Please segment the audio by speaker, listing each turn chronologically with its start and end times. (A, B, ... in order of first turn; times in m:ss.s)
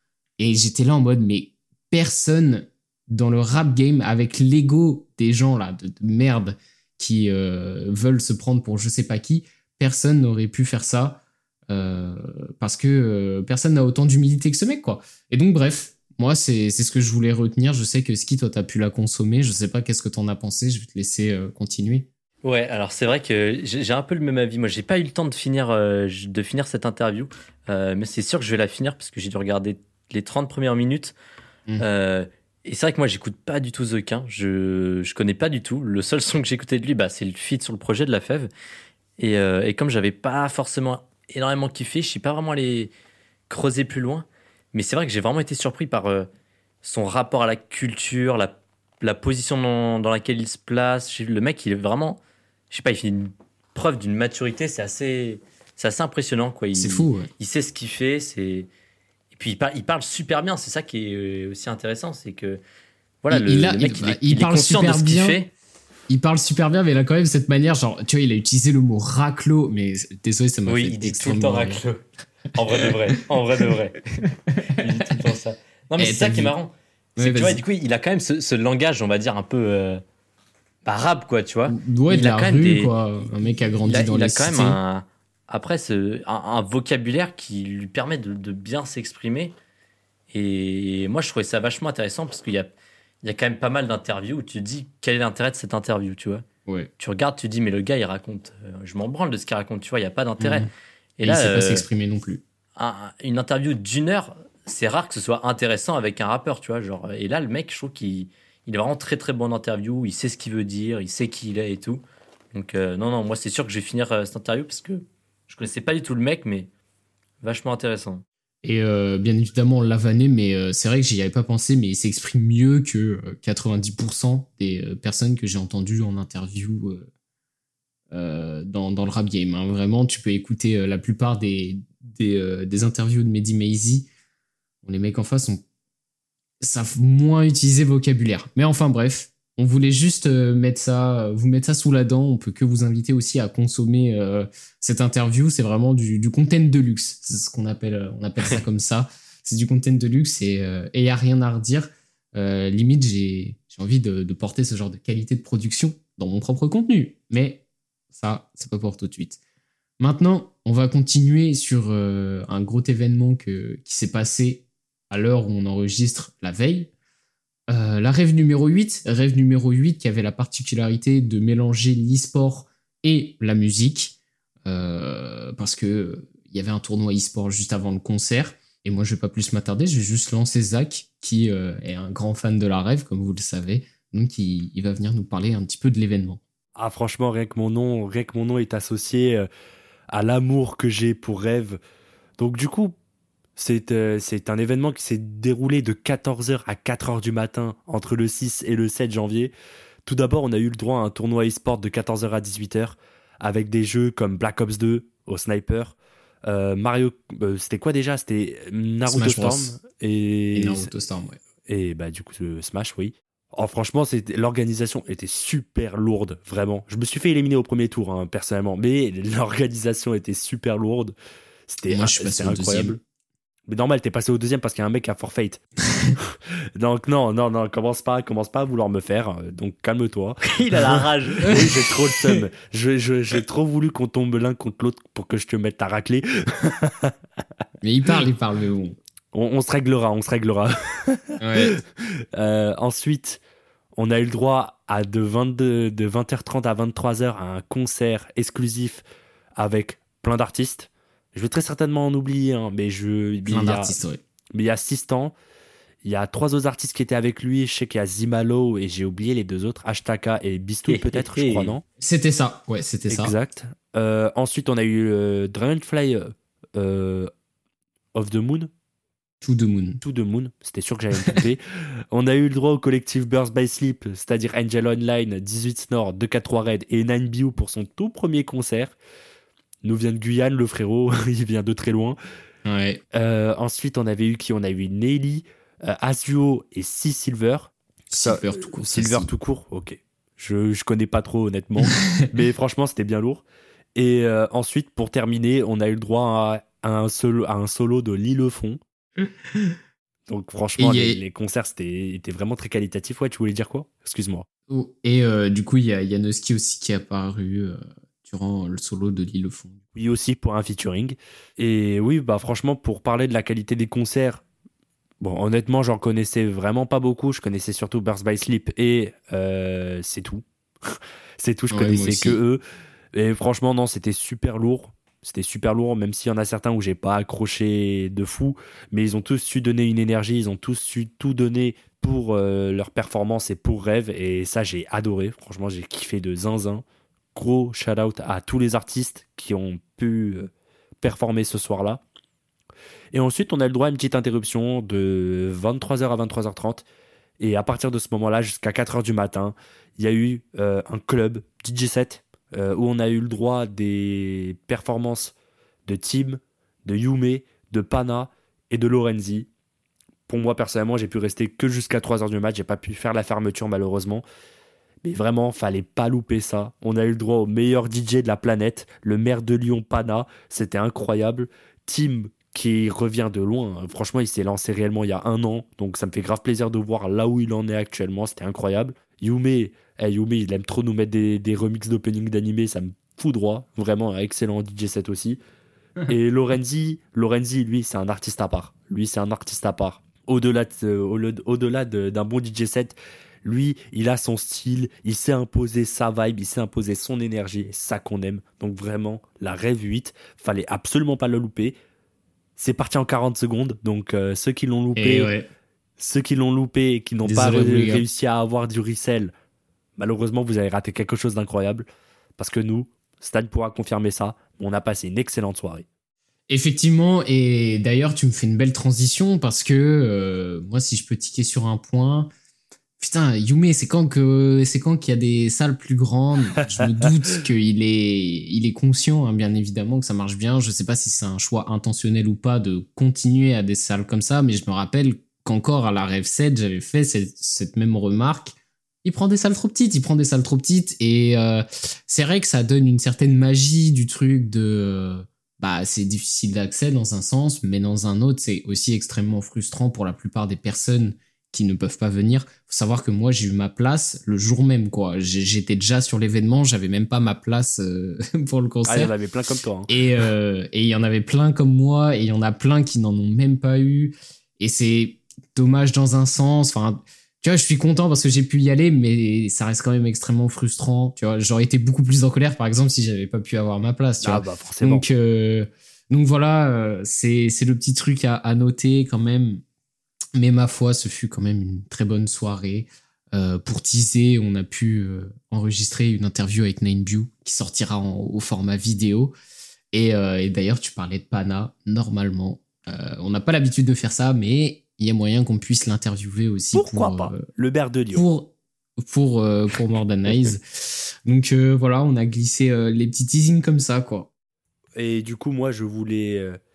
0:00.4-0:22.1 A
0:22.4-0:31.1 B
0:31.8-0:38.5 B
0:39.2-0:42.9 B
0:43.5-0:46.3 B
0:46.8-0:58.7 B
0:56.7-0:57.3 A
0:59.3-1:02.6 B
1:03.2-1:05.5 B
1:03.3-1:05.4 A
1:06.1-1:11.8 A
1:10.6-1:12.0 B
1:12.5-1:14.1 B
1:14.7-1:20.0 B
1:16.0-1:16.6 A
1:17.2-1:17.6 A
1:20.8-1:29.5 B
1:21.7-1:24.8 A
1:30.3-1:32.7 B
1:33.2-1:36.4 B
1:37.0-1:41.9 B
1:40.4-1:40.7 A
1:41.2-1:42.4 A
1:42.8-1:52.0 B
1:52.5-1:56.7 B
1:57.4-1:58.2 B
1:58.6-2:07.0 A
2:08.1-2:14.1 A
2:14.8-2:15.6 A
2:16.6-2:37.6 A
2:38.1-2:39.4 A
2:40.0-2:46.9 A
2:47.7-3:06.4 A
3:06.8-3:09.4 C
3:10.1-3:11.8 C
3:12.4-3:12.9 C
3:13.6-3:19.5 C
3:20.0-3:25.9 C
3:26.5-3:30.9 C
3:29.0-3:29.8 A
3:30.5-3:31.4 A
3:31.6-3:41.1 C
3:41.7-3:43.0 C
3:41.9-3:43.0 A
3:43.7-3:45.6 C
3:46.2-3:50.4 C
3:50.4-3:51.6 B
3:51.4-3:57.1 C
3:57.8-3:59.0 A
3:59.3-4:01.8 C
4:01.4-4:01.8 A
4:02.4-4:03.4 C
4:03.9-4:09.0 C
4:09.6-4:14.0 C
4:13.4-4:14.2 A
4:14.5-4:15.3 C
4:16.0-4:21.8 C
4:20.9-4:21.8 B
4:22.0-4:23.3 A
4:23.1-4:27.3 C
4:28.1-4:28.7 C
4:29.4-4:30.0 A
4:30.0-4:31.6 C
4:32.1-4:38.9 C
4:39.8-4:42.2 C
4:42.6-4:43.0 A
4:43.1-4:53.4 C
4:48.1-4:49.3 A
4:51.8-4:52.2 A
4:54.0-4:58.8 C
5:00.3-5:04.4 C
5:00.8-5:01.2 A
5:04.7-5:09.8 A
5:09.9-5:14.4 C
5:15.2-5:22.6 C
5:21.7-5:22.4 A
5:23.1-5:40.5 C
5:41.0-5:42.0 C
5:43.1-5:46.8 C
5:47.4-5:55.3 C
5:55.9-5:59.5 C
6:00.3-6:04.2 C
6:05.0-6:25.4 C
6:26.0-6:41.8 C
6:42.6-6:45.3 C
6:45.0-6:45.4 A
6:46.0-6:49.3 C
6:47.2-6:48.0 A
6:50.0-6:51.8 C
6:52.4-6:55.8 C
6:56.5-7:02.3 A
7:03.0-7:39.1 A
7:38.8-7:40.2 C
7:39.9-7:59.6 A
7:54.2-7:55.1 C
8:00.3-8:09.3 A
8:09.9-8:17.4 A
8:16.7-8:18.3 C
8:18.1-8:24.3 A
8:20.3-8:20.6 C
8:25.0-8:26.6 C